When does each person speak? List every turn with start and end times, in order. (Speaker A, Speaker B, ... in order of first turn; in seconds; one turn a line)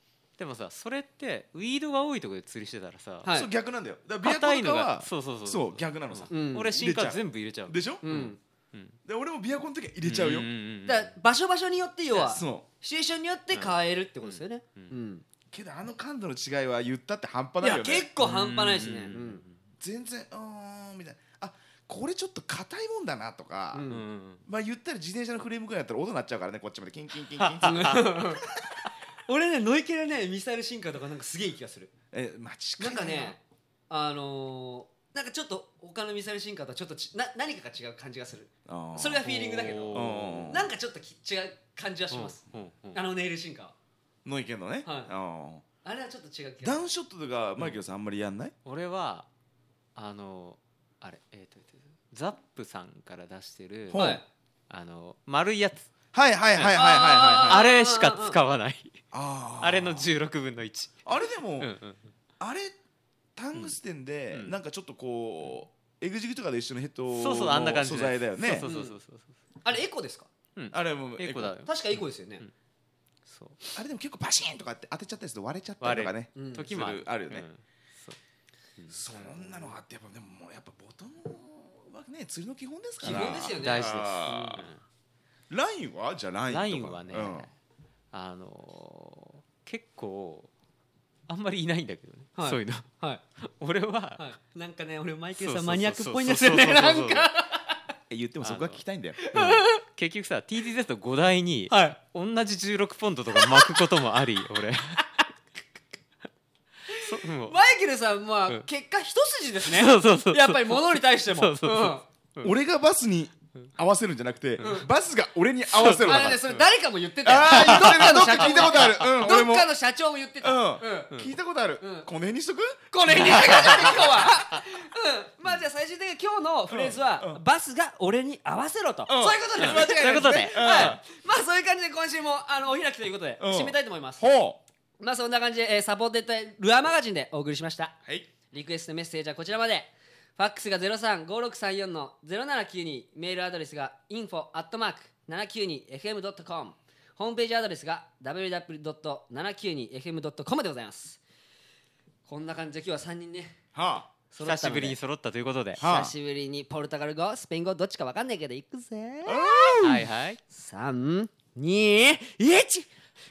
Speaker A: 0.4-3.3
Speaker B: 3.2-3.5
Speaker C: 3.3-8.1
Speaker A: 4.2-9.0
Speaker B: 6.3-6.8
Speaker B: 8.0-8.4
Speaker C: 9.1-10.5
Speaker A: 10.0-11.1
Speaker B: 10.8-15.2
Speaker C: 12.2-12.7
Speaker A: 13.5-14.9
Speaker C: 15.5-18.1
Speaker B: 17.6-19.4
Speaker A: 18.2-19.6
Speaker C: 19.8-23.8
Speaker B: 23.7-24.0
Speaker A: 23.9-24.4
Speaker C: 24.4-28.2
Speaker A: 27.4-28.2
Speaker B: 27.6-28.5
Speaker B: 29.2-31.9
Speaker C: 32.1-33.4
Speaker B: 32.8-33.4
Speaker B: 33.9-42.4
Speaker C: 38.6-39.2
Speaker A: 39.2-40.5
Speaker C: 39.9-40.7
Speaker A: 42.1-43.0
Speaker B: 42.9-43.7
Speaker C: 44.2-45.6
Speaker B: 44.8-45.1
Speaker B: 45.8-46.8
Speaker C: 46.6-48.5
Speaker A: 48.6-49.3
Speaker A: 50.0-54.1
Speaker C: 53.9-54.2
Speaker B: 53.9-54.2
Speaker A: 54.7-55.9
Speaker C: 56.1-57.6
Speaker A: 56.5-56.8
Speaker B: 56.7-58.4
Speaker A: 57.4-59.0
Speaker C: 59.1-60.1
Speaker A: 59.6-62.1
Speaker C: 61.0-61.7
Speaker C: 62.4-62.7
Speaker C: 63.4-68.7
Speaker A: 67.1-69.3
Speaker B: 68.6-69.0
Speaker B: 69.6-70.3
Speaker A: 70.5-72.5
Speaker C: 70.7-71.5
Speaker B: 71.7-72.4
Speaker A: 73.2-73.6
Speaker C: 73.7-77.5
Speaker A: 75.8-78.2
Speaker B: 76.3-76.7
Speaker A: 78.8-79.8
Speaker C: 78.9-84.7
Speaker B: 83.0-84.7
Speaker A: 83.0-84.8
Speaker C: 85.5-87.5
Speaker A: 86.5-87.5
Speaker A: 88.1-90.5
Speaker A: 91.3-92.9
Speaker B: 92.4-93.2
Speaker A: 93.4-94.3
Speaker B: 94.2-97.8
Speaker A: 95.3-97.3
Speaker C: 98.1-99.2
Speaker A: 98.4-105.0
Speaker B: 99.2-99.8
Speaker B: 101.7-102.0
Speaker B: 103.3-103.8
Speaker A: 106.9-107.5
Speaker B: 106.9-112.0
Speaker A: 109.6-112.5
Speaker C: 112.4-116.4
Speaker A: 114.6-114.8
Speaker B: 114.6-114.9
Speaker A: 115.7-116.4
Speaker B: 116.0-121.1
Speaker C: 117.2-119.7
Speaker A: 117.5-119.2
Speaker C: 120.4-124.3
Speaker B: 121.8-122.1
Speaker B: 122.9-134.3
Speaker A: 123.1-123.9
Speaker C: 126.7-127.4
Speaker C: 129.1-131.0
Speaker A: 129.6-131.0
Speaker C: 133.4-134.6
Speaker B: 135.0-137.9
Speaker B: 138.5-151.2
Speaker B: 152.3-153.6
Speaker C: 153.7-154.1
Speaker B: 154.3-155.0
Speaker A: 154.4-155.8
Speaker B: 155.8-159.9
Speaker C: 155.8-156.1
Speaker C: 159.2-160.1
Speaker A: 159.8-160.4
Speaker B: 160.5-162.9